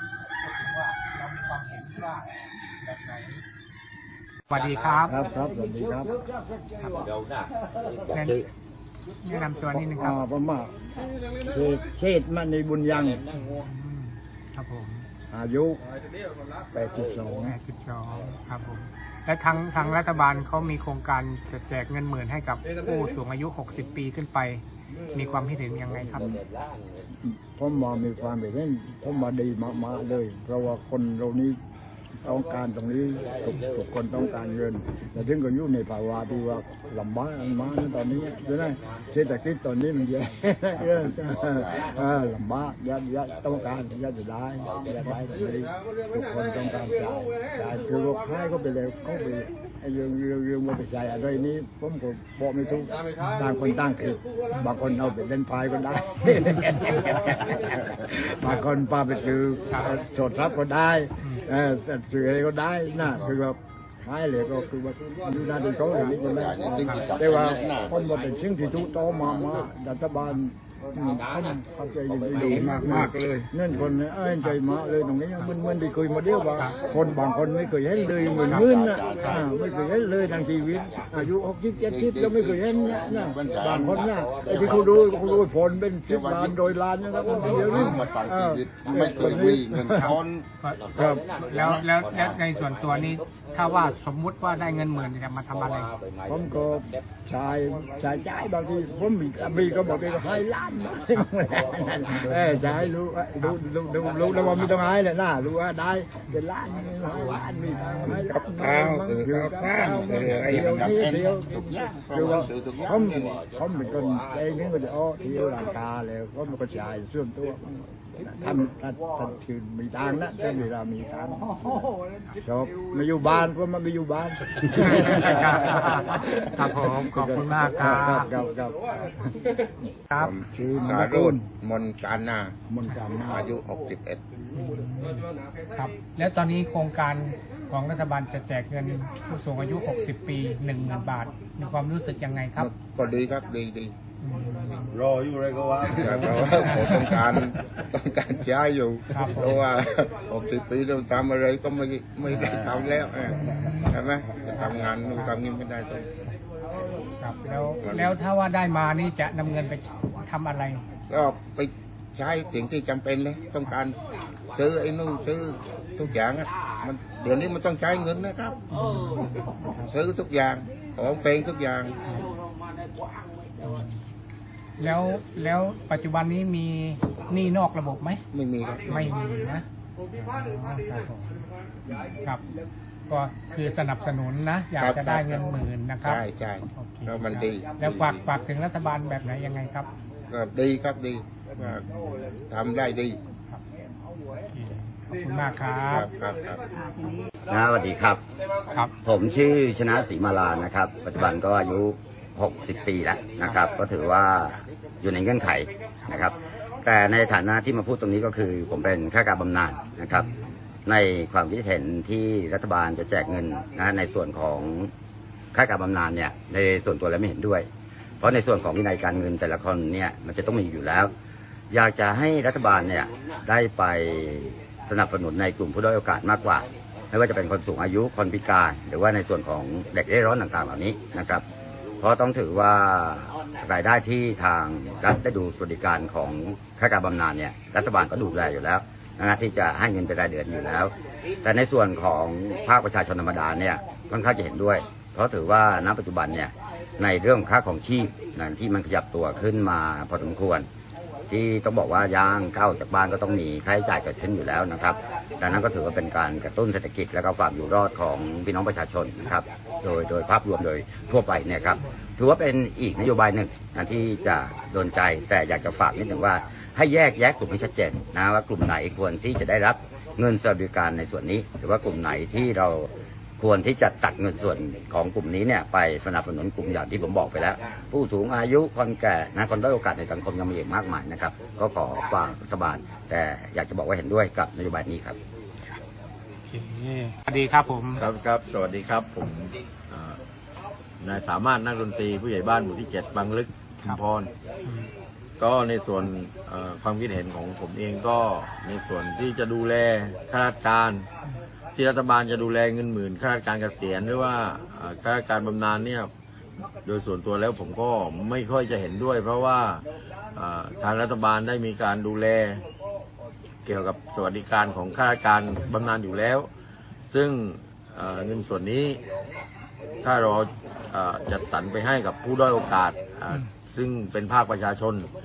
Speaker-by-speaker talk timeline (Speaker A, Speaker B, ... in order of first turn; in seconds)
Speaker A: 0.4-2.3, 2.8-3.4, 4.5-5.2, 6.8-7.1, 8.1-8.5, 9.2-10.2, 13.3-15.1, 17.4-26.4, 59.7-60.0, 66.8-67.2, 72.4-72.7, 78.4-78.7, 87.3-88.1, 89.8-95.9, 102.2-102.9, 107.4-108.2, 124.7-128.3, 130.1-130.4, 134.5-142.7, 144.2-145.0, 146.1-147.4, 149.1-149.7, 152.2-154.0, 154.5-155.4, 157.2-160.8, 168.7-170.0, 173.6-174.0, 174.8-178.2, 178.9-181.5, 182.2-182.4, 183.1-189.9, 191.6-192.3, 194.4-196.1, 286.5-288.0, 294.6-294.9
Speaker B: 5.1-6.2, 9.8-10.8, 11.4-13.3, 15.3-15.8, 16.7-17.6, 27.2-31.6, 32.2-90.2, 90.9-91.4, 96.3-121.8, 122.4-126.4, 127.0-129.2, 130.4-131.5, 132.7-133.5
Speaker C: 66.3-67.9, 72.4-73.5, 78.2-79.5, 81.9-84.9, 86.0-86.7, 87.5-90.5, 91.5-91.9, 108.3-113.0, 130.2-132.6, 133.3-134.2, 142.6-143.9, 145.9-156.1, 157.8-158.1, 161.1-164.0, 164.5-168.7, 169.8-172.0, 178.3-179.0, 184.8-188.2, 190.3-191.9, 192.5-193.2, 195.9-196.6
Speaker D: 144.9-146.5, 288.0-290.2, 291.0-294.3, 295.4-301.1, 301.8-306.1, 306.9-312.6, 313.7-316.5, 317.1-319.0, 320.0-325.1
Speaker E: 197.5-198.2, 199.1-210.3, 210.9-214.9, 215.5-217.7, 218.2-221.1, 221.7-231.4, 232.0-240.9, 241.4-250.7, 251.3-285.2